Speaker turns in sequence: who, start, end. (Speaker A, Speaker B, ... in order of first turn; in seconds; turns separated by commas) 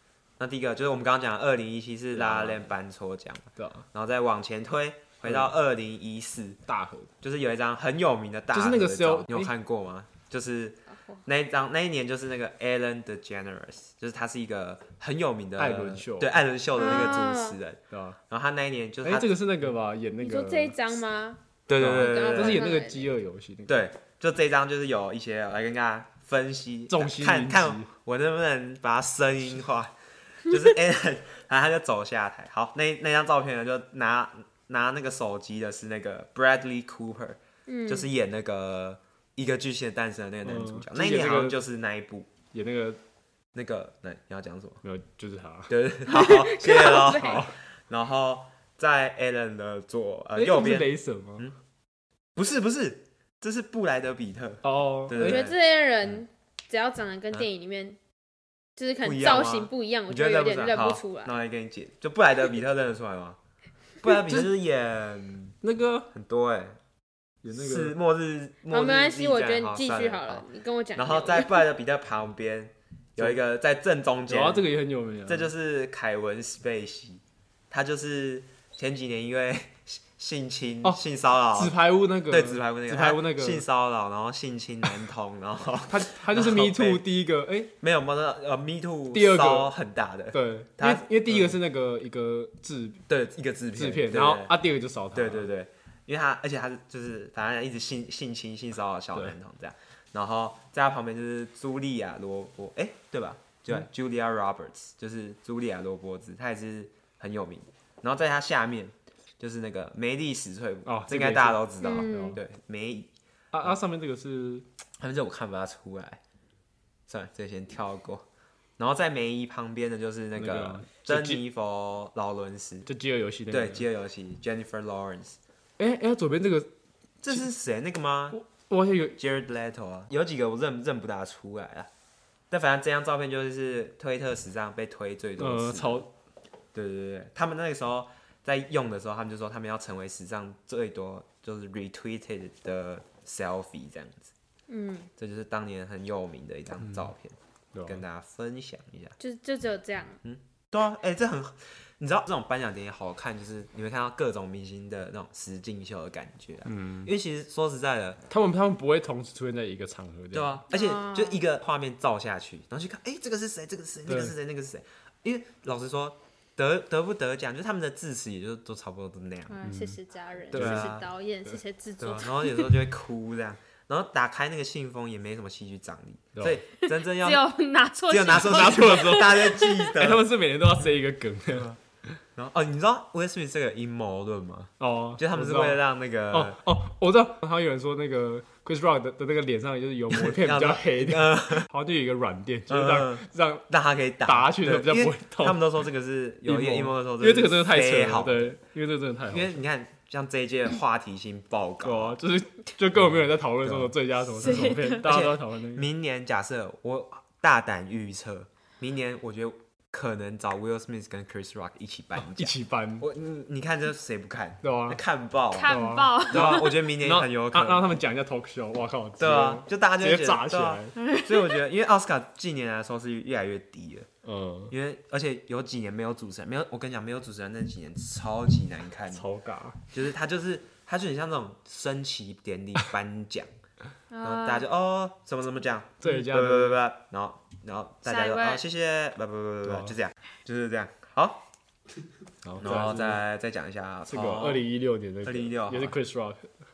Speaker A: 0.4-6.6, Speaker B: 2.1-2.7, Speaker B: 3.6-3.9, Speaker B: 5.2-5.5, Speaker B: 6.7-7.1, Speaker A: 7.2-19.3, Speaker B: 8.5-9.5, Speaker B: 15.6-16.4, Speaker C: 16.7-17.6, Speaker B: 17.9-18.2, Speaker B: 19.0-20.8, Speaker C: 20.2-23.1, Speaker A: 21.7-22.7, Speaker B: 21.8-23.9, Speaker A: 23.7-42.3, Speaker B: 26.9-27.9, Speaker C: 37.7-38.1, Speaker B: 40.4-41.6, Speaker B: 42.5-43.0, Speaker A: 43.5-44.8, Speaker B: 44.8-45.7, Speaker A: 45.7-51.5, Speaker C: 46.1-47.4, Speaker B: 47.1-47.5, Speaker B: 50.4-51.5, Speaker A: 52.4-55.6, Speaker B: 54.6-55.4, Speaker C: 55.2-58.0, Speaker C: 58.8-61.4, Speaker A: 59.0-63.4, Speaker A: 64.0-65.5, Speaker B: 64.2-64.5, Speaker B: 65.6-66.1, Speaker A: 66.1-66.8, Speaker B: 67.4-67.9, Speaker A: 67.5-74.7, Speaker C: 68.7-71.6, Speaker B: 74.3-75.5, Speaker A: 75.2-81.8, Speaker B: 81.5-83.6, Speaker A: 82.3-87.0, Speaker B: 85.9-87.7, Speaker A: 87.8-91.6, Speaker B: 89.1-89.7, Speaker B: 90.3-93.0, Speaker A: 93.1-94.5, Speaker B: 93.7-95.5, Speaker A: 95.1-113.1, Speaker B: 110.8-112.4, Speaker C: 111.8-112.4, Speaker B: 113.5-114.6, Speaker A: 115.0-116.2, Speaker A: 117.1-118.2, Speaker A: 118.8-122.9, Speaker B: 120.3-121.4, Speaker B: 122.9-123.9, Speaker A: 123.5-125.4, Speaker B: 125.8-126.7, Speaker A: 127.2-128.4, Speaker B: 128.3-129.2, Speaker A: 129.2-131.9, Speaker A: 132.5-136.0, Speaker B: 135.4-136.1, Speaker A: 136.7-144.3, Speaker C: 144.7-145.1, Speaker A: 145.2-149.2, Speaker B: 147.7-148.0, Speaker C: 149.2-150.2, Speaker A: 150.2-158.2, Speaker B: 156.7-157.1, Speaker B: 158.3-160.6, Speaker A: 160.3-169.6, Speaker C: 160.7-161.4, Speaker B: 164.1-164.3, Speaker C: 169.5-172.7, Speaker B: 169.6-170.0, Speaker A: 170.5-171.1, Speaker B: 170.5-170.9, Speaker A: 172.0-177.5, Speaker B: 176.3-176.6, Speaker C: 176.8-179.9, Speaker A: 178.1-180.2, Speaker B: 178.3-181.7, Speaker A: 182.3-186.6, Speaker B: 184.8-193.7, Speaker A: 190.1-191.7, Speaker A: 192.7-198.5, Speaker B: 194.2-195.7, Speaker B: 196.4-199.6, Speaker A: 199.3-202.2, Speaker B: 201.8-205.9, Speaker A: 203.0-217.9, Speaker C: 204.4-205.0, Speaker B: 212.2-213.1, Speaker B: 214.6-215.0, Speaker C: 215.5-216.7, Speaker B: 215.6-220.9, Speaker A: 219.2-224.1, Speaker C: 220.9-221.6, Speaker B: 224.2-224.7, Speaker A: 224.7-229.2, Speaker B: 229.1-229.8, Speaker A: 229.9-233.5, Speaker C: 234.1-234.7, Speaker A: 234.2-241.5, Speaker B: 236.0-236.8, Speaker C: 238.1-238.6, Speaker B: 239.7-239.9, Speaker B: 242.4-243.2, Speaker A: 242.6-244.6, Speaker B: 244.1-246.5, Speaker A: 245.2-245.9